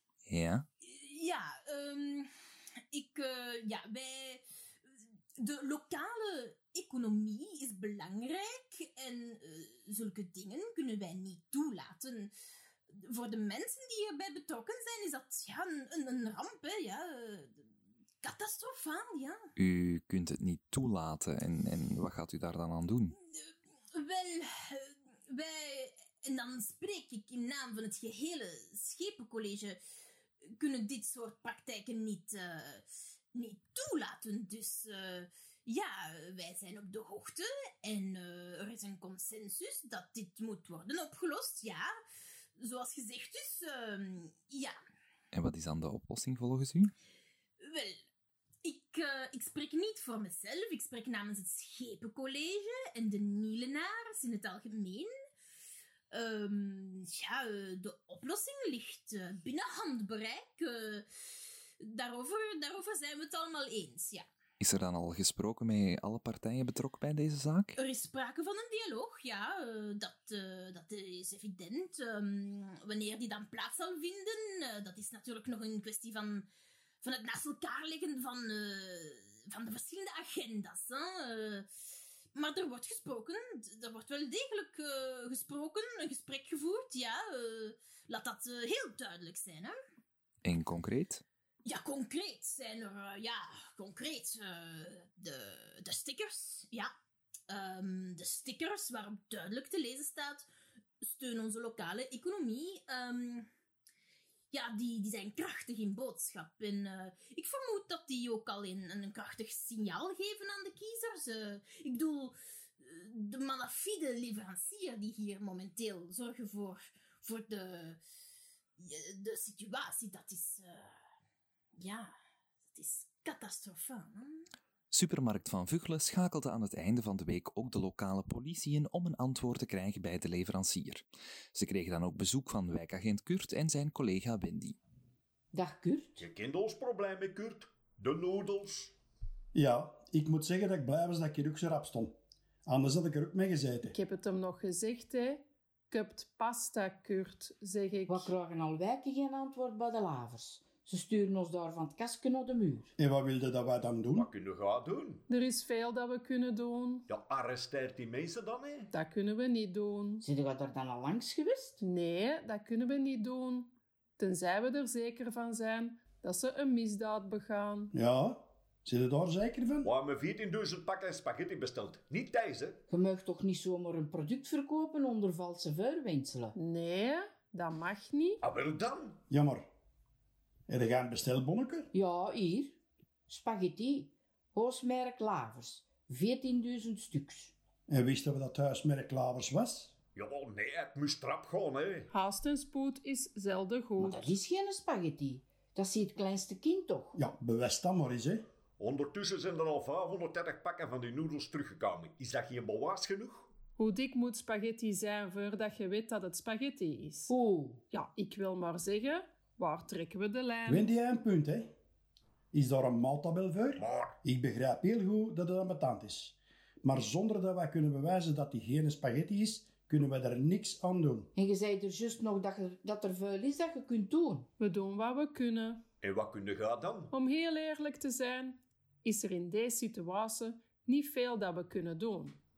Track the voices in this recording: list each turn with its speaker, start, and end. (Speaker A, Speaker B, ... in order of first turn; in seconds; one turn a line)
Speaker A: 0.2-0.7
Speaker B: 0.8-2.3
Speaker B: 2.9-4.4
Speaker B: 5.4-12.3
Speaker B: 12.9-17.6
Speaker B: 18.2-19.4
Speaker A: 19.6-23.1
Speaker B: 23.3-29.8
Speaker B: 30.4-41.9
Speaker B: 42.6-44.8
Speaker A: 45.3-46.9
Speaker B: 47.6-48.0
Speaker B: 48.6-55.1
Speaker B: 56.1-61.1
Speaker B: 61.8-64.3
Speaker A: 64.6-67.8
Speaker B: 67.8-76.5
Speaker B: 77.0-81.7
Speaker B: 82.3-89.8
Speaker A: 90.4-91.2
Speaker B: 91.6-96.9
Speaker B: 97.5-100.5
Speaker B: 101.0-103.5
Speaker B: 104.5-118.0
Speaker B: 118.8-121.0
Speaker B: 121.7-122.1
Speaker B: 122.7-124.5
Speaker A: 124.9-134.8
Speaker C: 135.5-136.1
Speaker D: 136.2-139.0
Speaker E: 139.5-142.1
Speaker E: 142.7-143.9
Speaker F: 143.9-148.3
Speaker C: 148.1-152.9
Speaker E: 153.0-154.3
Speaker D: 154.1-155.2
Speaker F: 155.3-157.1
Speaker D: 157.1-158.9
Speaker F: 158.9-160.2
Speaker C: 160.2-161.8
Speaker F: 161.8-167.9
Speaker E: 167.9-169.9
Speaker D: 169.8-172.8
Speaker C: 172.9-176.5
Speaker F: 176.6-178.4
Speaker D: 178.4-179.2
Speaker E: 179.3-179.7
Speaker E: 180.7-181.9
Speaker C: 181.9-182.8
Speaker C: 183.3-187.5
Speaker E: 187.9-189.9
Speaker D: 190.1-192.1
Speaker F: 192.1-194.2
Speaker C: 194.0-197.1
Speaker E: 197.1-198.4
Speaker D: 198.8-203.5
Speaker F: 203.8-207.3
Speaker C: 207.3-207.8
Speaker F: 207.9-210.8
Speaker E: 210.7-211.7
Speaker E: 212.5-221.3
Speaker D: 213.8-214.2
Speaker C: 221.4-224.5
Speaker F: 224.6-225.8
Speaker D: 226.0-227.1
Speaker F: 227.1-232.4